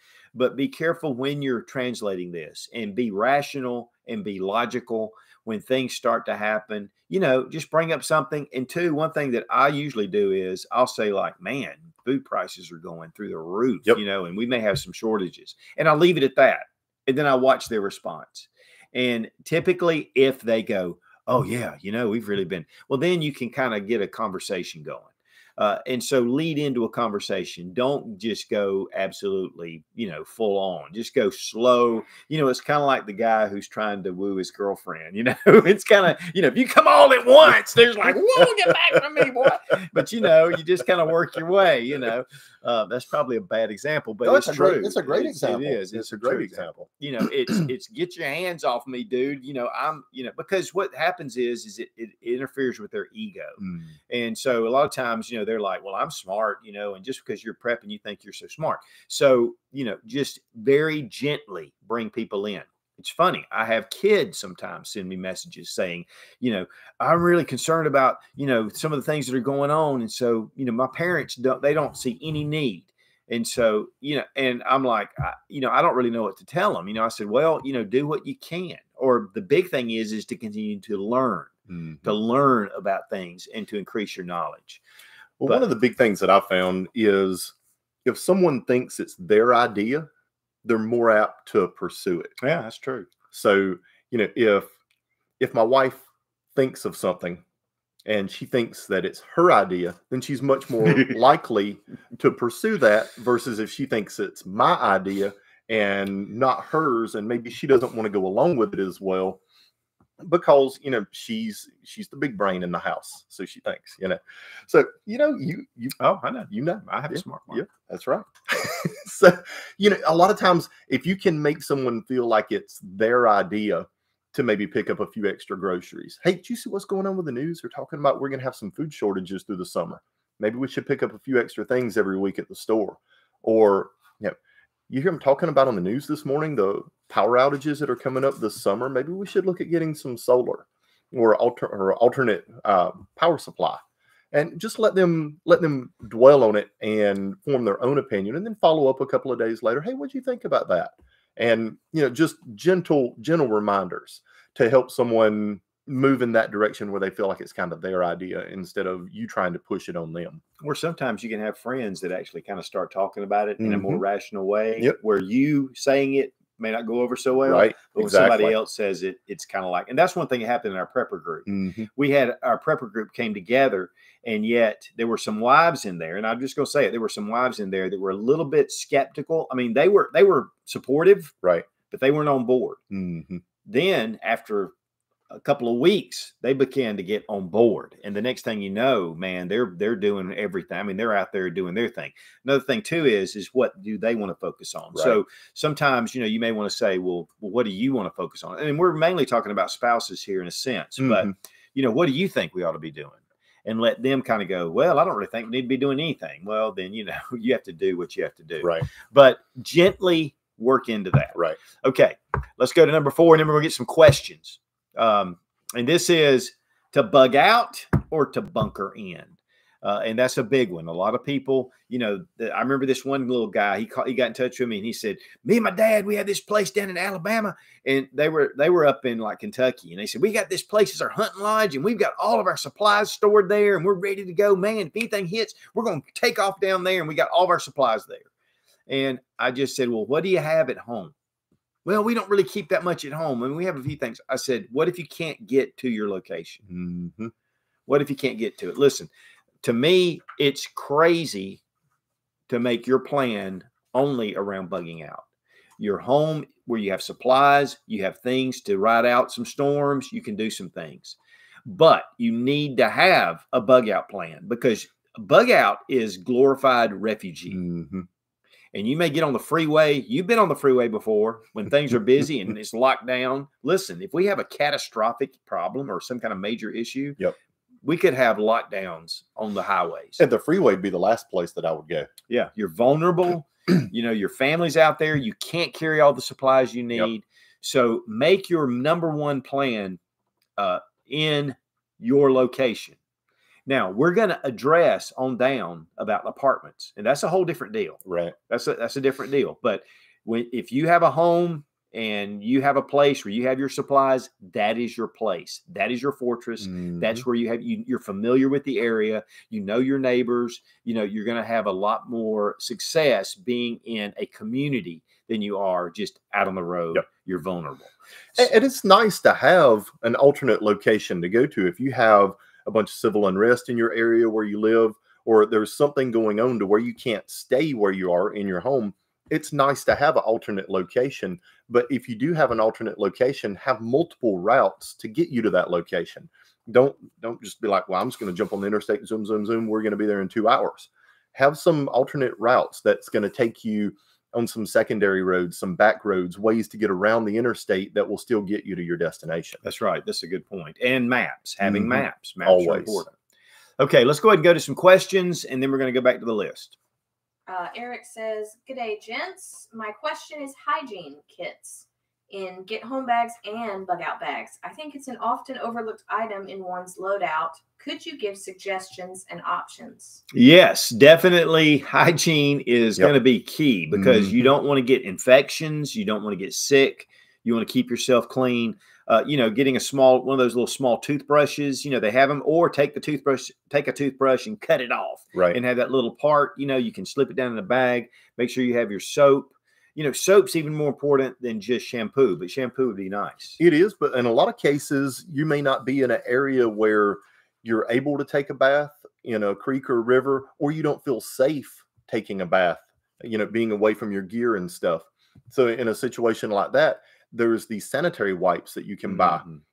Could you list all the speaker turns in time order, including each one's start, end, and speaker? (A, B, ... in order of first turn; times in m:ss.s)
0:00.3-1:24.8 A
0:44.2-0:46.9 B
0:53.6-0:53.9 B
1:21.7-1:22.1 B
1:25.4-1:27.5 B
1:28.0-1:30.1 B
1:30.6-1:32.3 B
1:32.4-1:33.1 A
1:33.3-1:34.7 B
1:35.4-1:36.0 B
1:36.5-1:37.4 B
1:38.0-1:49.4 B
1:50.2-1:56.0 B
1:56.0-1:57.6 A
1:56.5-2:14.4 B
2:14.9-2:40.4 B
2:40.6-3:01.3 A
2:43.6-2:44.0 B
2:47.5-2:48.6 B
2:51.5-2:51.9 B
3:01.4-3:01.7 B
3:01.8-3:02.8 A
3:02.9-3:03.4 B
3:03.6-3:04.7 A
3:05.3-3:58.3 A
3:14.9-3:15.2 B
3:21.0-3:21.3 B
3:28.6-3:28.9 B
3:58.9-4:01.1 A
4:01.8-4:06.6 A
4:06.7-4:07.3 B
4:07.9-4:09.1 A
4:09.6-4:11.6 A
4:12.5-4:15.2 A
4:15.8-4:27.6 A
4:27.5-4:28.0 B
4:28.7-4:37.2 A
4:37.8-4:40.2 A
4:40.2-4:42.1 B
4:42.3-4:50.0 A
4:50.6-4:53.0 A
4:53.6-5:18.5 A
4:58.0-4:58.3 B
5:06.6-5:07.2 B
5:18.4-5:49.6 B
5:49.6-5:53.1 A
5:51.6-5:53.0 B
5:53.8-5:56.7 A
5:57.5-6:10.2 C
6:10.3-6:33.6 A
6:13.9-6:14.4 B
6:25.3-6:25.6 B
6:33.6-6:49.4 B
6:49.1-6:49.6 A